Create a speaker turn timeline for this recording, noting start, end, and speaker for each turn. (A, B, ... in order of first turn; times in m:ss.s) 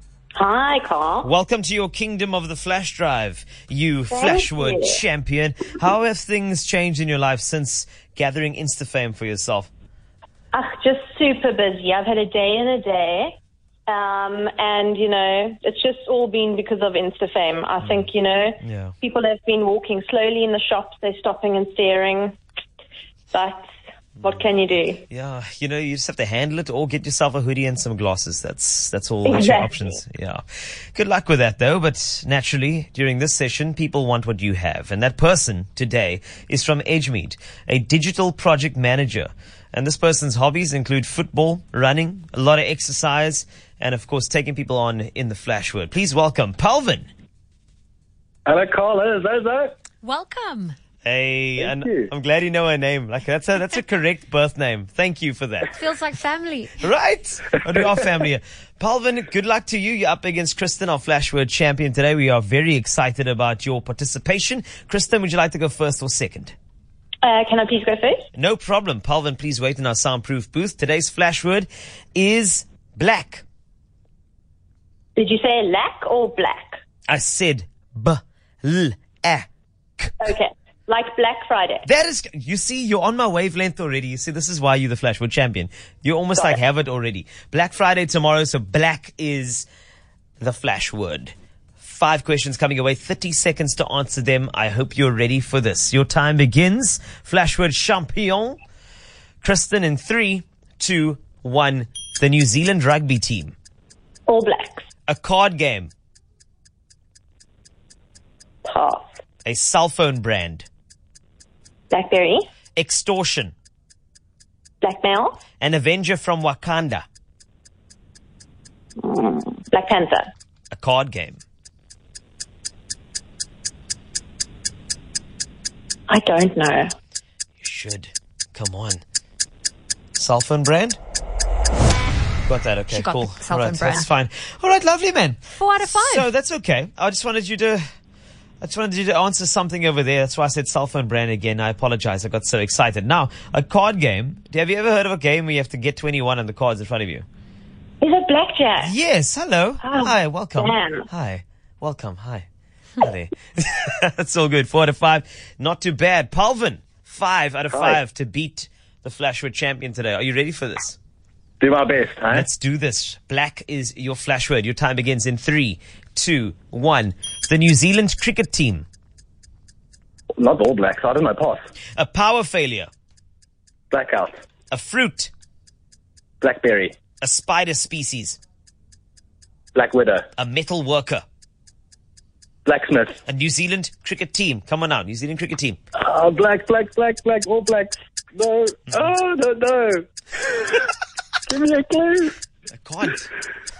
0:00.3-0:01.3 A
0:01.2-0:09.7 B
0:04.1-0:05.0 A
0:10.5-0:13.4 A
0:13.9-0:22.4 A
0:17.8-0:18.1 B
0:18.6-0:18.9 B
0:23.3-0:23.7 A
0:24.2-0:25.0 A
0:25.1-0:47.1 B
0:29.2-0:30.0 A
0:48.4-0:49.7 C
0:50.0-0:50.8 D
0:51.0-0:55.8 B
0:51.6-0:52.1 C
0:55.7-0:56.8 D
0:56.8-1:06.5 B
1:07.2-1:08.2 A
1:08.3-1:13.4 B
1:15.2-1:16.8 A
1:17.1-1:19.4 B
1:20.2-1:21.8 A
1:21.8-1:29.6 B
1:30.4-1:38.6 B
1:39.4-1:43.5 B
1:44.3-1:44.8 A
1:45.1-1:45.9 B
1:48.6-1:49.1 A
1:49.4-1:50.6 B
1:51.9-1:52.5 A
1:52.8-1:53.5 B
1:54.8-1:55.4 A
1:55.6-1:57.0 B
1:59.0-2:00.3 A
2:00.7-2:01.4 B
2:06.1-2:06.9 A
2:07.6-2:09.0 B
2:10.1-2:11.0 B
2:12.4-2:17.8 B
2:12.9-2:14.1 D
2:15.5-2:16.3 D
2:18.6-2:27.2 B
2:28.0-2:28.9 A
2:28.8-2:32.4 B
2:29.8-2:31.0 A
2:33.0-2:41.0 B
2:37.7-2:38.0 C
2:41.6-2:42.5 C
2:42.3-2:48.8 B
2:50.4-2:51.6 C
2:52.0-2:52.9 B
2:53.9-2:54.3 C
2:54.7-2:55.3 B
2:56.4-2:56.9 C
2:57.2-2:58.4 B
2:59.7-3:00.2 C
3:00.4-3:01.2 B
3:02.6-3:03.2 C
3:03.3-3:05.8 B
3:06.0-3:10.7 C
3:11.5-3:12.3 C
3:12.7-3:13.3 B